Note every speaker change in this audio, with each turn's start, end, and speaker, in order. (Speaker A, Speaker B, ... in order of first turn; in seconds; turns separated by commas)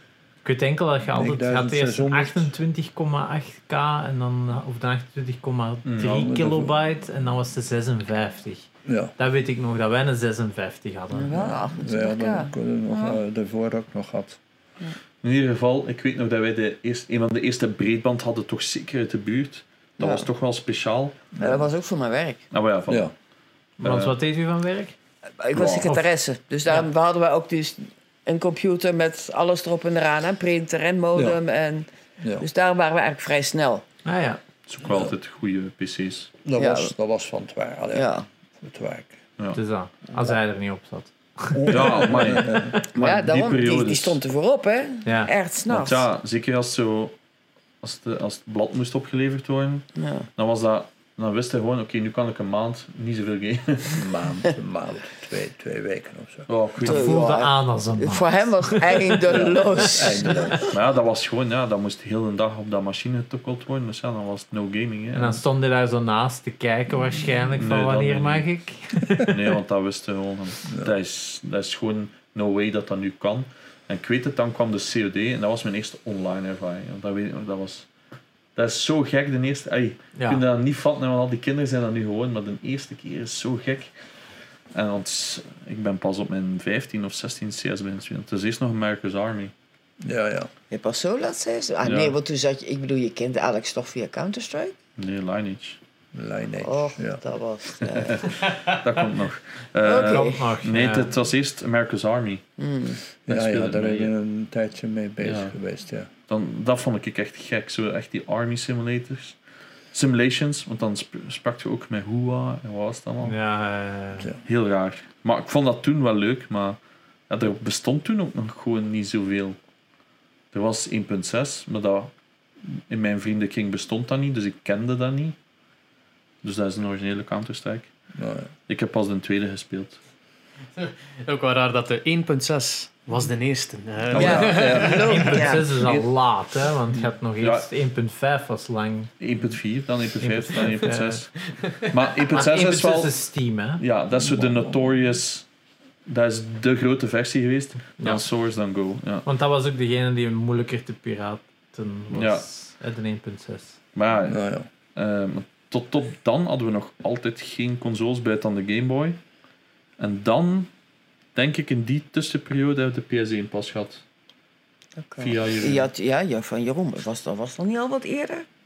Speaker A: 0.4-8.7, Speaker B: 1.1-2.5, Speaker C: 5.8-6.3, Speaker B: 6.0-6.8, Speaker B: 8.8-9.1, Speaker A: 9.2-11.4, Speaker D: 11.1-13.2, Speaker B: 11.3-14.4, Speaker C: 15.2-21.2, Speaker D: 20.0-20.3, Speaker B: 21.4-21.7, Speaker D: 21.4-22.4, Speaker C: 22.5-23.1, Speaker C: 23.8-24.1, Speaker A: 23.8-24.9, Speaker D: 25.4-31.9, Speaker C: 25.5-26.0, Speaker B: 31.1-31.4, Speaker D: 32.4-33.8, Speaker A: 34.0-34.4, Speaker C: 34.7-36.3, Speaker B: 34.9-35.1, Speaker B: 36.5-39.2, Speaker D: 36.6-36.9, Speaker D: 37.9-38.3, Speaker A: 39.5-41.9, Speaker B: 41.7-42.8, Speaker C: 41.7-44.2, Speaker D: 42.9-46.0, Speaker A: 45.0-45.3, Speaker C: 45.7-47.1, Speaker C: 47.8-54.1, Speaker D: 50.0-50.3, Speaker B: 53.9-56.5, Speaker C: 56.5-57.2, Speaker D: 56.8-60.7, Speaker A: 56.8-59.1, Speaker B: 59.3-60.7, Speaker C: 60.7-65.4, Speaker A: 65.1-69.3, Speaker C: 67.6-68.5, Speaker C: 69.3-77.9, Speaker B: 70.7-70.9, Speaker C: 78.6-83.9, Speaker A: 80.2-80.4, Speaker C: 84.7-89.5, Speaker B: 90.0-90.5, Speaker D: 90.7-94.8, Speaker C: 91.8-92.2, Speaker C: 95.0-95.8, Speaker B: 96.1-97.2, Speaker D: 96.6-98.3, Speaker C: 97.8-102.4, Speaker D: 99.8-100.4, Speaker A: 100.0-101.1, Speaker D: 102.6-103.0, Speaker C: 103.3-104.1, Speaker B: 103.3-106.1, Speaker C: 105.2-105.5, Speaker C: 106.3-109.4, Speaker C: 109.9-113.3, Speaker A: 113.2-114.3, Speaker C: 114.5-116.8, Speaker C: 117.3-119.6, Speaker C: 120.5-122.1, Speaker C: 122.9-125.4, Speaker C: 126.4-127.9, Speaker B: 128.2-128.5, Speaker C: 128.7-130.0, Speaker E: 130.8-135.5, Speaker C: 134.1-134.6, Speaker B: 134.1-136.1, Speaker D: 134.1-135.7, Speaker A: 134.7-139.1, Speaker C: 137.4-137.7, Speaker C: 139.2-143.2, Speaker A: 140.2-141.2, Speaker E: 141.4-141.9, Speaker A: 142.3-143.8, Speaker C: 143.8-145.4, Speaker B: 144.2-145.0, Speaker C: 146.1-149.3, Speaker A: 149.2-153.8, Speaker C: 152.1-152.5, Speaker C: 153.9-154.4, Speaker B: 154.2-154.7, Speaker C: 154.9-159.2, Speaker C: 160.0-160.7, Speaker C: 161.3-164.0, Speaker D: 165.0-168.5, Speaker C: 165.2-165.9